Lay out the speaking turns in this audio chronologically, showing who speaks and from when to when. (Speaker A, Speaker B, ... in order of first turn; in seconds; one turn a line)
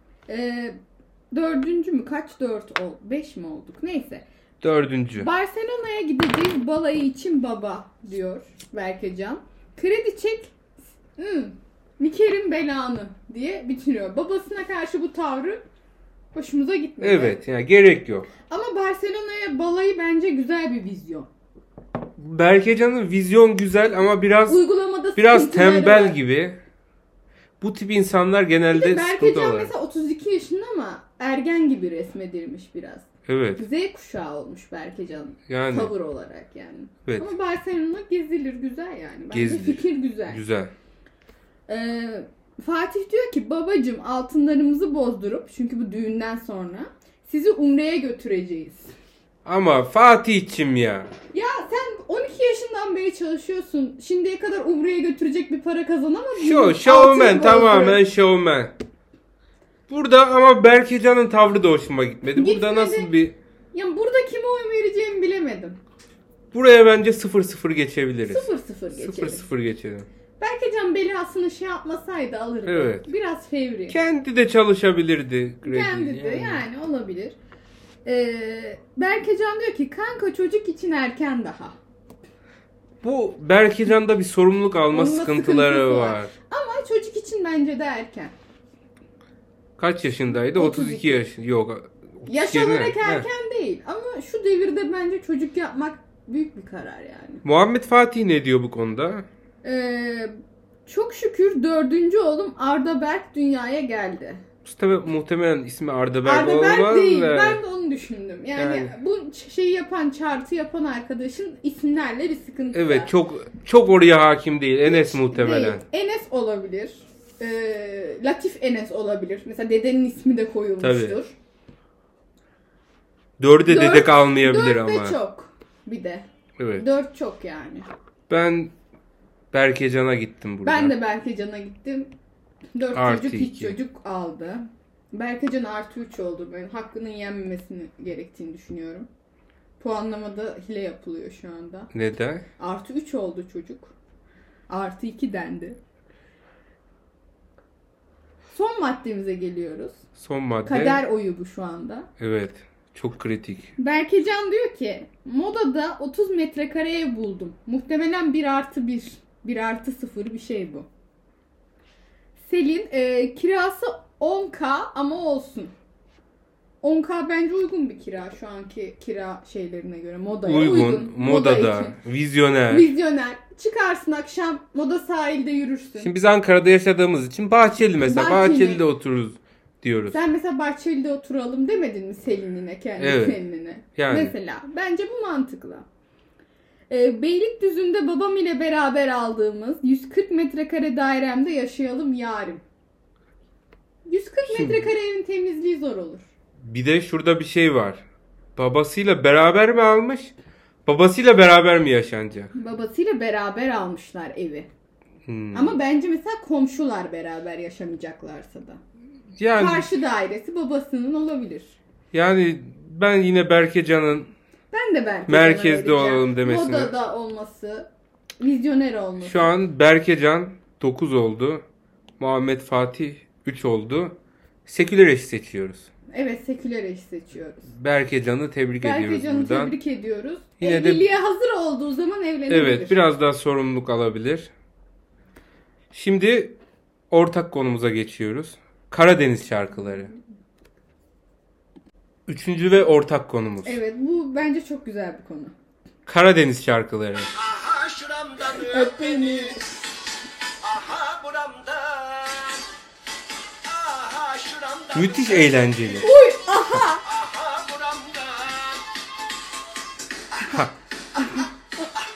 Speaker A: 0.3-0.8
Speaker A: 1.3-4.2
Speaker B: 4.6-5.3
Speaker A: 5.2-15.6
Speaker A: 16.3-17.4
Speaker B: 17.0-18.3
Speaker A: 18.5-21.3
Speaker B: 22.2-24.6
Speaker A: 24.5-26.2
Speaker B: 25.2-26.6
Speaker B: 27.6-29.7
Speaker A: 28.7-33.1
Speaker B: 33.3-33.6
Speaker A: 33.6-40.4
Speaker B: 35.5-35.9
Speaker B: 37.1-37.3
Speaker B: 39.3-40.7
Speaker A: 41.7-48.9
Speaker B: 49.5-51.1
Speaker A: 51.3-58.0
Speaker B: 56.4-58.7
Speaker B: 59.9-63.4
Speaker A: 62.4-63.1
Speaker A: 63.7-65.8
Speaker B: 66.5-70.1
Speaker A: 68.3-69.5
Speaker A: 70.4-74.0
Speaker B: 72.7-73.1
Speaker B: 73.9-76.6
Speaker A: 75.6-77.4
Speaker A: 78.0-81.8
Speaker B: 83.0-86.3
Speaker A: 84.9-88.3
Speaker B: 89.8-93.3
Speaker A: 90.5-91.2
Speaker A: 92.3-97.4
Speaker B: 97.4-99.3
Speaker A: 99.6-100.3
Speaker A: 100.9-104.4
Speaker B: 104.7-107.6
Speaker A: 106.2-113.1
Speaker B: 108.6-108.9
Speaker B: 112.7-115.8
Speaker A: 114.8-121.3
Speaker B: 120.8-121.2
Speaker B: 123.4-125.2
Speaker A: 123.7-126.3
Speaker B: 126.6-126.9
Speaker A: 126.8-127.9
Speaker B: 128.3-128.7
Speaker B: 129.5-130.9
Speaker A: 130.6-132.1
Speaker A: 132.8-139.1
Speaker B: 132.9-133.8
Speaker A: 139.8-141.9
Speaker B: 141.9-142.4
Speaker A: 142.6-143.9
Speaker A: 144.7-145.8
Speaker A: 148.5-150.0
Speaker B: 150.2-151.0
Speaker A: 150.7-152.1
Speaker B: 152.2-153.7
Speaker A: 153.8-160.9
Speaker A: 162.4-165.7
Speaker A: 166.8-172.0
Speaker B: 170.4-172.9
Speaker A: 172.7-176.1
Speaker B: 176.0-180.2
Speaker A: 178.1-178.8
Speaker A: 180.1-185.9
Speaker B: 183.0-183.4
Speaker B: 183.9-184.3
Speaker A: 186.9-192.6
Speaker A: 194.1-196.2
Speaker B: 194.5-194.9
Speaker B: 196.6-198.0
Speaker B: 198.6-200.3
Speaker B: 200.9-202.5
Speaker A: 202.5-204.7
Speaker B: 205.3-205.8
Speaker A: 205.5-208.8
Speaker B: 209.4-209.9
Speaker A: 209.5-211.8
Speaker B: 212.1-214.3
Speaker A: 214.7-219.5
Speaker B: 215.3-216.9
Speaker B: 219.2-221.6
Speaker B: 222.2-225.9
Speaker A: 226.1-227.7
Speaker B: 227.7-229.7
Speaker A: 228.8-233.0
Speaker B: 230.6-231.1
Speaker B: 232.5-234.5
Speaker B: 235.9-236.6
Speaker B: 237.1-240.1
Speaker B: 242.3-243.8
Speaker A: 243.6-245.6
Speaker B: 246.1-247.3
Speaker C: 247.3-249.6
Speaker A: 248.6-249.6
Speaker C: 250.6-252.6
Speaker C: 253.6-255.6
Speaker B: 254.9-256.1
Speaker A: 256.0-257.1
Speaker C: 257.0-258.8
Speaker B: 260.5-260.7